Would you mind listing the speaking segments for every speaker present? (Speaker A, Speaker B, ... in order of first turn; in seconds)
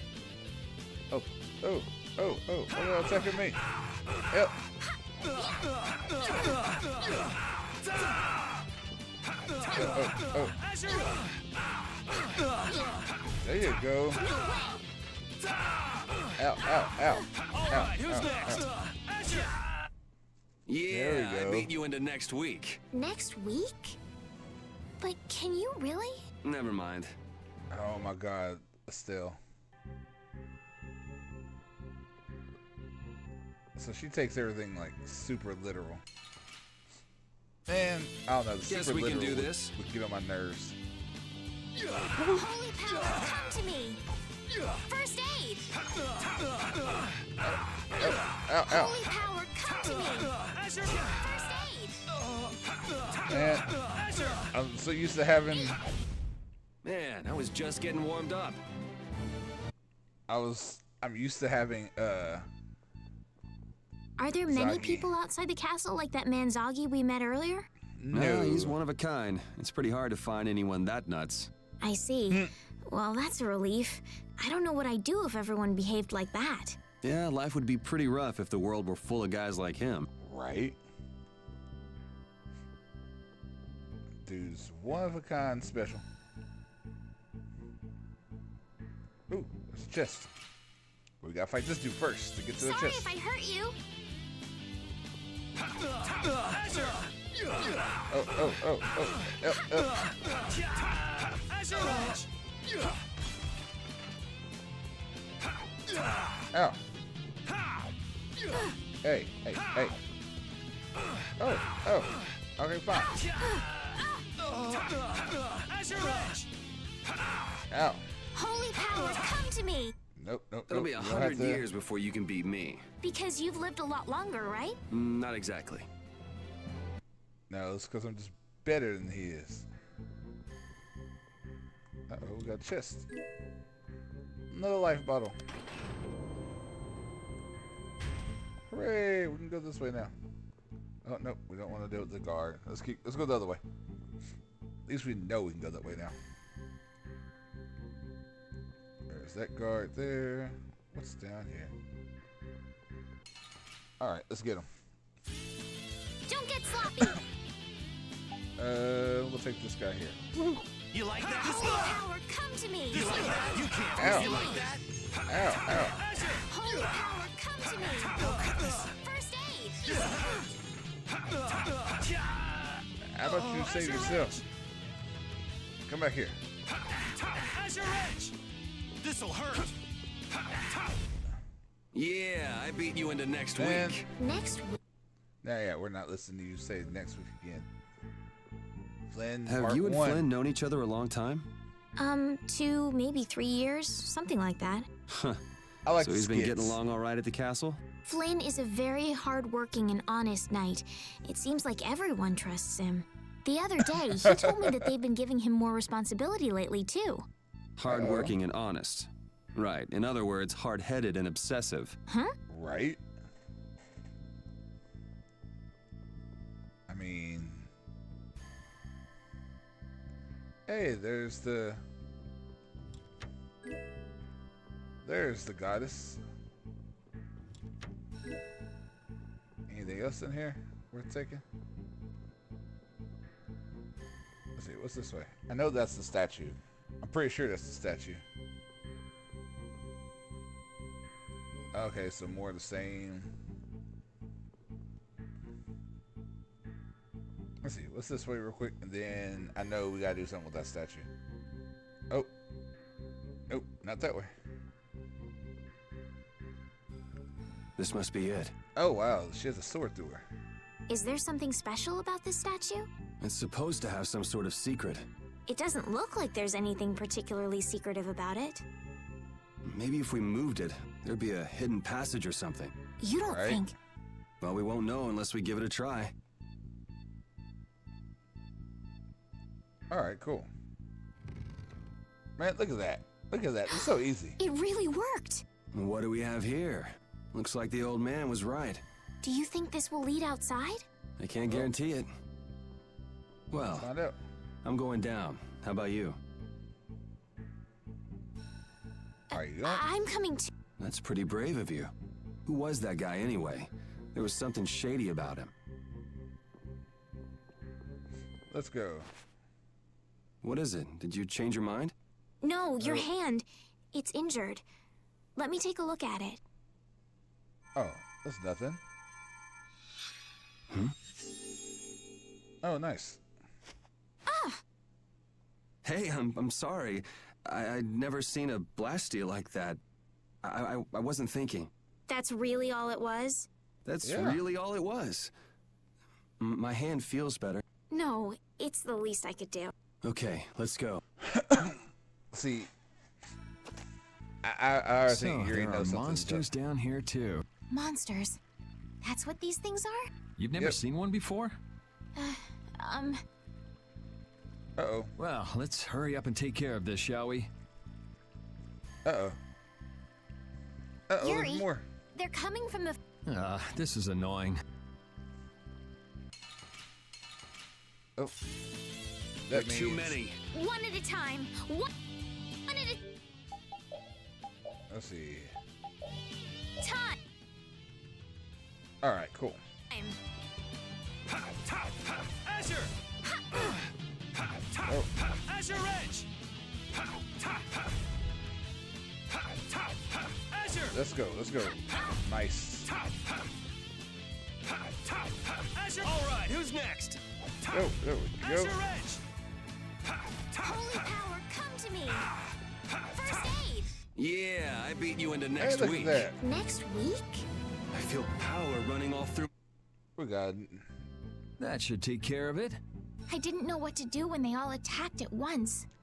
Speaker A: 1.1-3.6, 4.3-4.5, 9.7-10.6, 13.4-14.2, 16.4-18.7, 20.9-21.7, 27.7-29.4, 33.8-36.0, 37.7-40.8, 47.4-49.0, 53.3-53.8, 54.4-55.8, 60.3-62.5, 64.5-65.1, 68.0-68.8, 80.2-80.8, 84.2-86.0, 89.3-90.3, 91.2-93.1, 98.1-100.1, 106.5-106.8, 109.0-110.0, 111.4-113.3, 117.7-118.0, 120.2-121.7, 127.5-129.7, 132.1-133.1, 134.5-135.4, 138.7-140.1, 141.0-143.6, 144.9-146.1, 149.1-151.7, 154.0-154.7, 158.6-160.7, 163.9-164.3, 165.3-166.0, 173.1-174.4, 175.9-176.4, 183.5-184.0, 185.4-187.7, 189.1-190.3, 195.8-196.8, 204.2-204.8, 207.9-208.3, 212.5-213.0, 216.9-217.7, 220.7-221.8, 225.0-226.2, 229.7-231.4, 234.6-238.2, 241.7-243.3, 247.6-251.1, 253.5-254.3, 258.7-260.2, 273.2-273.6, 279.9-280.5, 282.4-284.4, 291.4-291.7, 293.7-294.2, 299.3-299.9, 308.5-309.1, 312.8-313.1, 317.8-318.8, 322.6-323.2, 334.0-334.4, 341.2-341.8, 342.3-342.7, 344.4-346.5, 354.8-355.1, 359.0-359.4, 361.1-361.8, 369.5-370.2, 374.9-375.5, 379.0-379.6, 384.8-385.1, 390.8-392.9, 397.7-398.9, 405.6-406.4, 410.2-410.9
Speaker B: 14.4-14.8, 22.9-24.0, 25.0-26.2, 42.1-44.0, 44.8-45.7, 48.6-50.4, 50.9-52.0, 64.2-67.7, 71.8-76.8, 92.6-93.8, 113.3-114.2, 118.3-119.9, 123.0-124.8, 156.3-157.2, 161.2-164.7, 166.3-170.0, 184.2-184.8, 192.0-194.9, 198.1-207.3, 212.1-212.3, 260.9-262.9, 265.5-268.6, 273.0-273.7, 283.7-285.4, 289.2-290.9, 299.3-300.5, 312.4-314.6, 315.4-316.4, 324.3-324.6, 332.1-333.5, 337.9-339.7, 347.7-348.4, 349.0-350.1, 352.1-353.2, 361.2-363.0, 370.5-371.9, 372.7-373.0, 376.8-377.2, 379.9-380.2, 400.6-402.3, 403.1-403.9, 406.4-407.4, 413.3-415.9
Speaker C: 20.6-22.8, 26.4-27.1, 38.7-39.7, 56.8-58.6, 68.1-71.5, 77.0-80.1, 120.7-122.8, 124.9-125.9, 181.9-184.1, 189.5-191.5, 195.1-195.4, 196.0-197.8, 207.8-211.9, 257.8-258.5, 263.2-265.1, 269.6-272.7, 274.4-276.1, 285.7-288.8, 291.2-292.1, 293.5-293.9, 294.6-296.2, 300.8-301.9, 302.5-305.5, 310.4-311.9, 325.8-329.8, 330.4-331.7, 333.8-335.3, 336.4-337.6, 340.0-341.0, 369.5-370.4, 396.1-396.8, 404.1-406.3, 407.9-409.5
Speaker D: 160.9-162.0, 162.9-164.8, 179.0-179.7
Speaker E: 345.1-347.4, 350.4-351.6, 355.2-357.5, 363.2-364.6, 396.1-397.2, 411.6-412.8